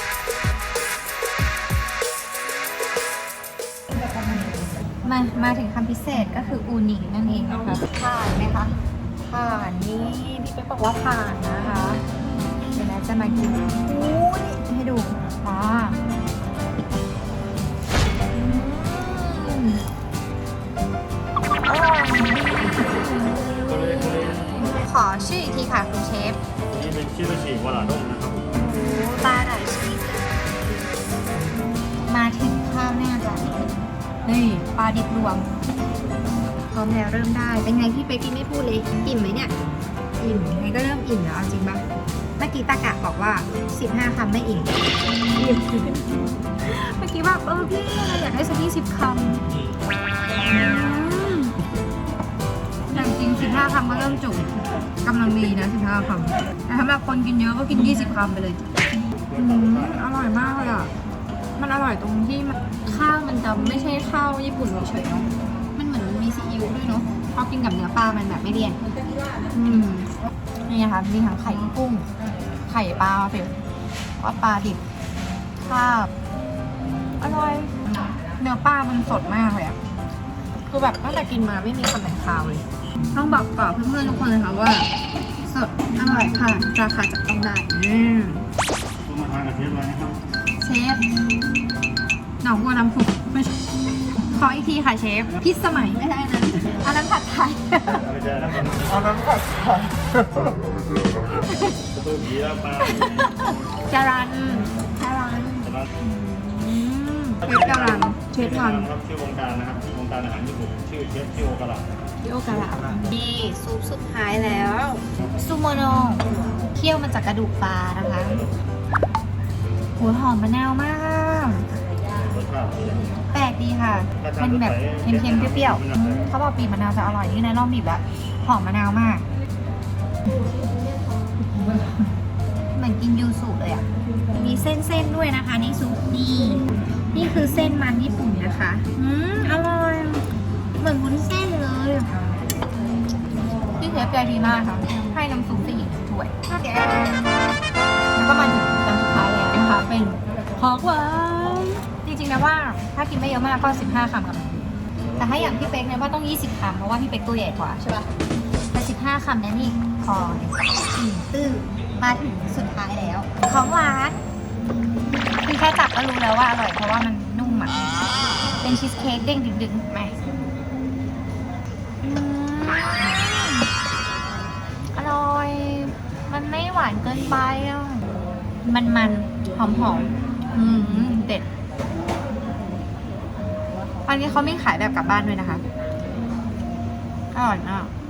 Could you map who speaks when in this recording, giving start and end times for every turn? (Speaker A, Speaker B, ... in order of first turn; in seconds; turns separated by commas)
Speaker A: 4.1-12.0, Speaker A: 12.7-16.0, Speaker A: 18.3-19.8, Speaker A: 21.6-23.4, Speaker B: 23.6-24.6, Speaker A: 24.6-26.4, Speaker B: 26.7-28.5, Speaker A: 28.6-30.5, Speaker A: 32.1-35.6, Speaker A: 36.7-39.5, Speaker A: 40.2-41.8, Speaker A: 42.4-49.5, Speaker A: 50.5-51.6, Speaker A: 52.9-54.5, Speaker A: 55.0-60.9, Speaker A: 61.6-68.8, Speaker A: 69.5-72.1, Speaker A: 72.7-73.6, Speaker A: 74.2-74.8, Speaker A: 75.6-76.1, Speaker A: 77.2-79.8, Speaker A: 80.7-84.9, Speaker A: 85.4-88.5, Speaker B: 89.0-90.2, Speaker A: 90.6-91.1, Speaker A: 92.4-93.6, Speaker A: 94.2-98.1, Speaker B: 98.1-99.1, Speaker A: 101.3-101.8, Speaker B: 101.9-103.1, Speaker A: 102.8-108.9, Speaker B: 107.5-111.9, Speaker A: 112.2-118.5, Speaker A: 120.0-121.7, Speaker B: 122.3-122.8, Speaker A: 123.3-129.2, Speaker B: 124.2-126.2, Speaker A: 131.6-132.0, Speaker A: 132.8-140.3, Speaker A: 140.8-142.4, Speaker A: 143.8-147.2, Speaker A: 148.2-158.1, Speaker A: 158.7-164.2, Speaker A: 165.4-167.9, Speaker A: 168.6-170.2, Speaker A: 172.0-173.7, Speaker A: 174.9-178.1, Speaker A: 178.6-181.5, Speaker A: 184.1-185.6, Speaker A: 187.3-187.9